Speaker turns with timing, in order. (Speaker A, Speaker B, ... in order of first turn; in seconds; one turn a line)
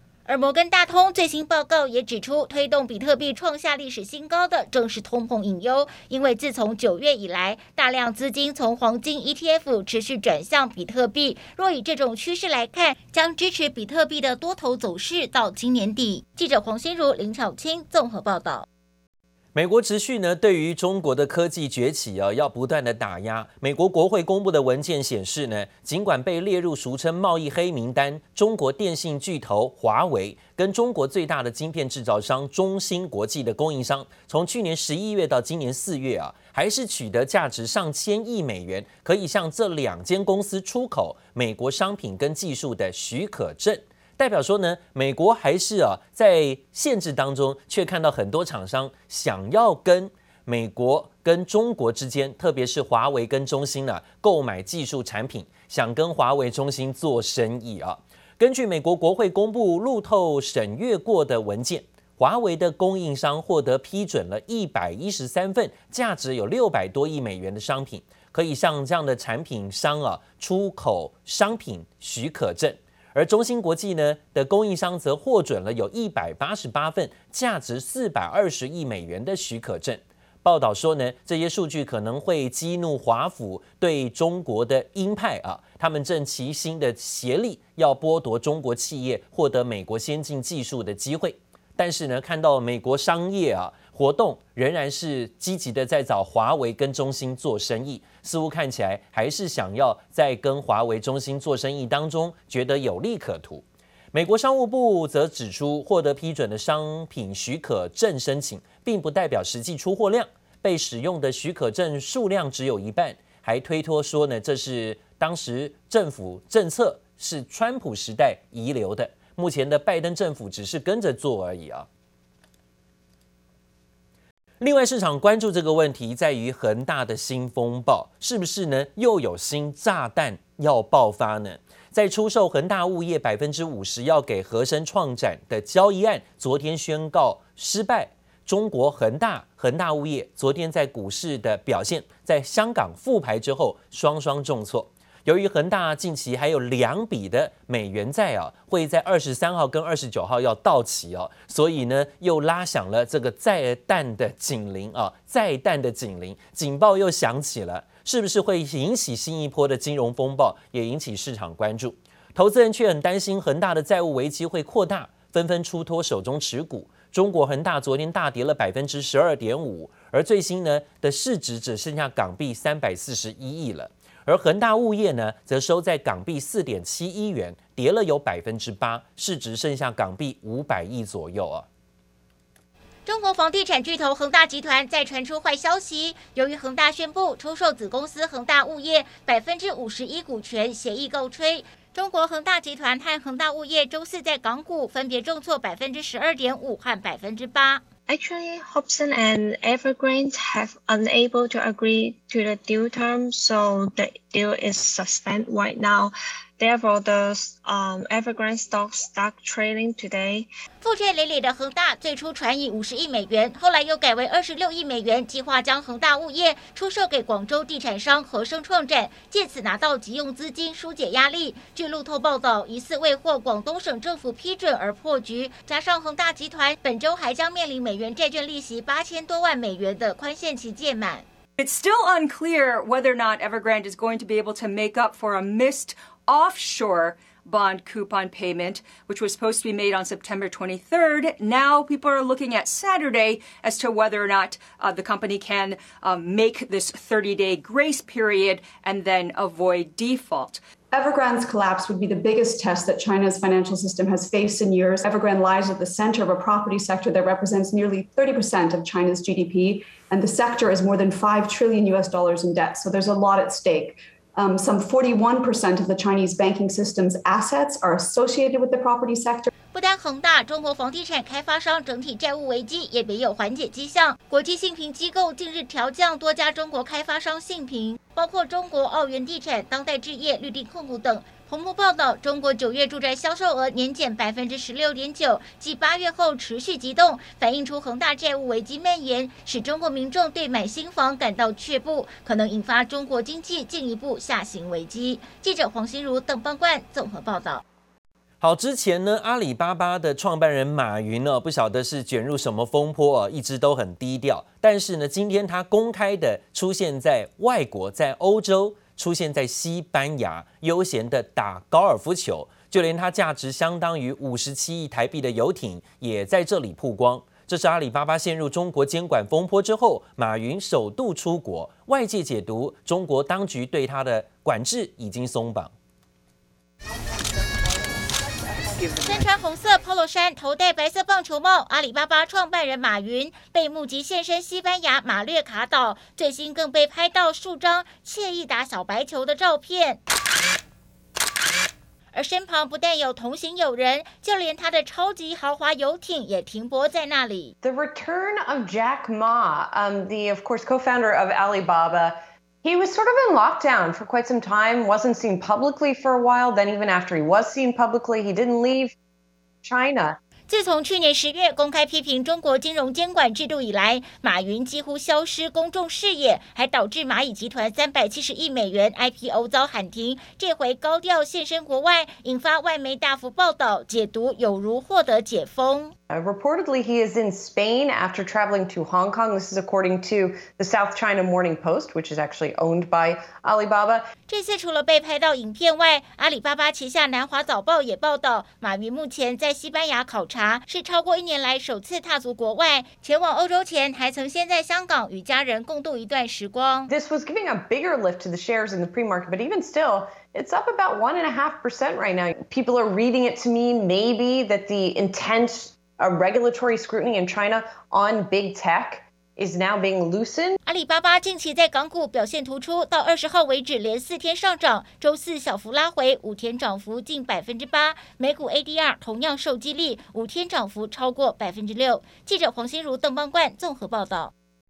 Speaker A: 0.3-18.7
Speaker B: 19.6-121.9
Speaker B: 124.6-181.7
Speaker A: 183.1-197.8
Speaker C: 198.1-210.5
Speaker A: 210.8-231.2
Speaker D: 231.6-250.6
Speaker E: 250.9-269.5
Speaker A: 269.7-297.6
Speaker B: 298.4-325.7
Speaker A: 329.0-340.0
Speaker A: 342.1-347.5
Speaker F: 347.6-359.0
Speaker F: 359.6-360.2
Speaker A: 360.5-375.9
Speaker F: 376.1-384.1
Speaker A: 384.3-396.9
Speaker F: 396.9-410.6
Speaker A: 410.7-424.3